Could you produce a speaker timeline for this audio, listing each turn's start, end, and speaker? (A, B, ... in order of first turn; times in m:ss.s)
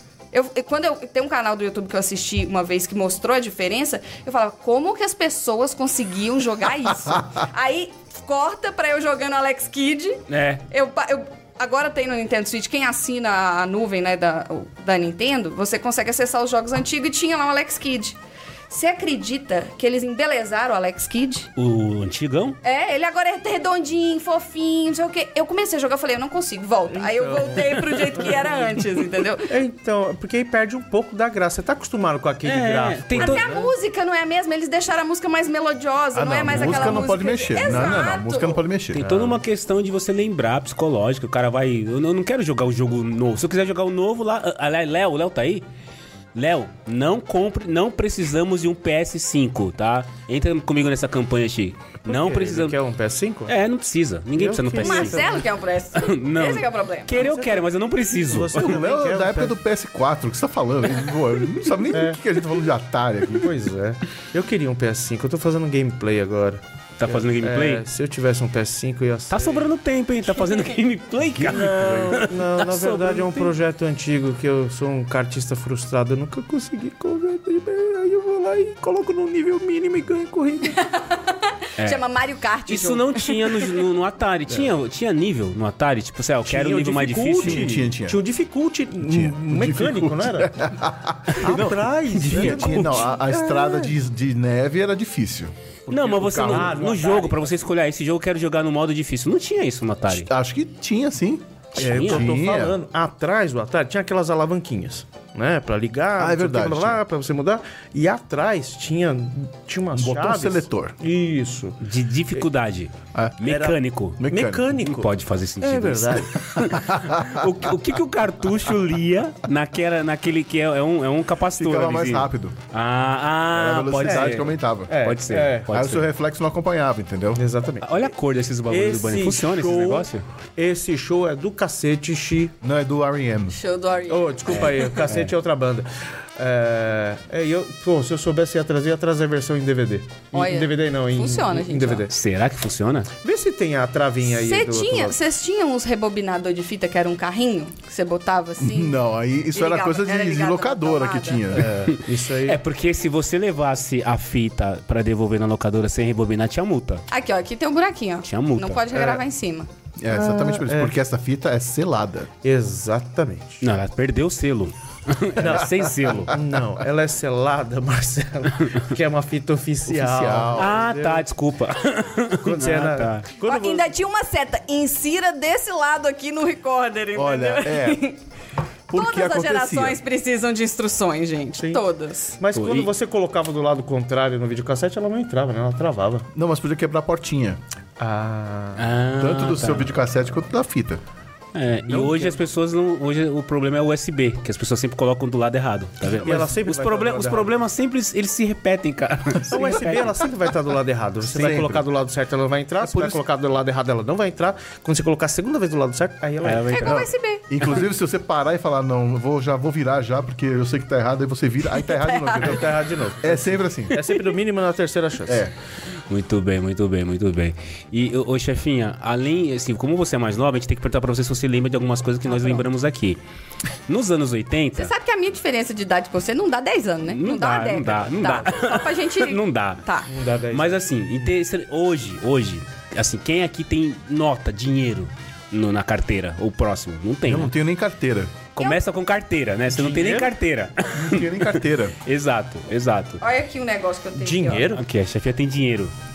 0:00.3-0:18.2 A
0:10.3-0:10.6 B
0:18.7-0:21.5 A
0:21.6-0:22.6 B
0:22.6-0:29.5 A
0:26.9-0:28.6 C
0:29.5-0:33.7 C
0:32.4-0:33.6 B
0:33.1-0:38.6 A
0:36.1-0:39.1 D
0:36.5-0:37.1 B
0:38.9-0:45.6 B
0:39.0-0:39.4 C
0:46.4-0:52.8 B
0:52.1-0:53.5 C
0:53.5-0:55.4 B
0:54.4-0:55.4 C
0:54.8-0:57.1 A
0:56.0-0:58.8 B
0:57.1-0:59.6 C
0:58.6-1:03.5 D
1:01.9-1:02.2 C
1:03.4-1:09.7 C
1:07.0-1:07.8 B
1:09.3-1:13.5 B
1:11.3-1:12.1 D
1:11.4-1:20.8 C
1:20.8-1:21.2 A
1:21.8-1:23.8 A
1:22.7-1:27.7 B
1:26.4-1:30.5 C
1:27.4-1:28.2 D
1:29.0-1:35.5 D
1:31.3-1:34.0 C
1:32.2-1:33.1 B
1:35.9-1:37.6 C
1:35.9-1:40.3 B
1:40.1-1:42.8 D
1:41.8-1:42.3 B
1:41.8-1:51.8 C
1:46.2-1:47.0 D
1:49.9-1:51.0 D
1:51.8-1:54.2 B
1:53.1-1:53.4 D
1:53.4-1:56.4 C
1:54.2-1:54.7 D
1:54.8-2:06.1 B
1:56.6-1:57.5 D
2:01.5-2:02.6 D
2:03.5-2:04.9 D
2:04.0-2:05.7 C
2:05.7-2:07.4 D
2:07.4-2:08.0 C
2:07.8-2:10.2 B
2:08.7-2:12.6 C
2:12.6-2:13.6 D
2:13.5-2:14.6 A
2:14.1-2:22.1 C
2:14.5-2:15.3 B
2:20.3-2:22.1 A
2:22.1-2:23.1 B
2:23.2-2:25.2 C
2:24.2-2:29.0 A
2:28.6-2:31.9 D
2:29.5-2:31.4 A
2:31.6-2:32.6 C
2:31.8-2:37.0 B
2:37.1-2:39.7 A
2:38.2-2:39.2 B
2:40.0-2:42.3 D
2:40.1-2:40.9 C
2:42.4-2:43.6 C
2:43.6-2:46.3 B
2:45.4-2:51.2 C
2:49.9-2:50.8 D
2:50.6-2:53.2 B
2:52.4-2:53.9 C
2:53.4-2:58.2 A
2:57.1-2:58.0 D
2:58.9-3:00.0 D
2:58.9-3:02.4 A
3:01.6-3:06.3 C
3:02.5-3:02.9 B
3:06.3-3:07.6 D
3:08.0-3:08.9 C
3:08.8-3:09.9 B
3:09.2-3:11.0 D
3:11.5-3:20.2 B
3:11.9-3:12.4 C
3:16.1-3:17.6 C
3:19.5-3:27.0 C
3:21.2-3:21.8 D
3:22.8-3:23.2 D
3:26.4-3:27.0 B
3:26.7-3:27.4 A
3:26.8-3:34.1 D
3:31.8-3:32.6 A
3:32.3-3:35.5 C
3:35.3-3:35.5 D
3:36.1-3:43.2 B
3:43.9-3:44.9 B
3:44.8-3:50.1 A
3:47.1-3:49.8 B
3:50.1-3:51.3 C
3:50.5-3:57.5 B
3:57.3-3:58.4 D
3:58.6-4:03.2 B
3:59.7-4:00.3 C
4:00.9-4:02.0 D
4:03.2-4:04.7 A
4:04.2-4:04.8 C
4:04.7-4:05.9 B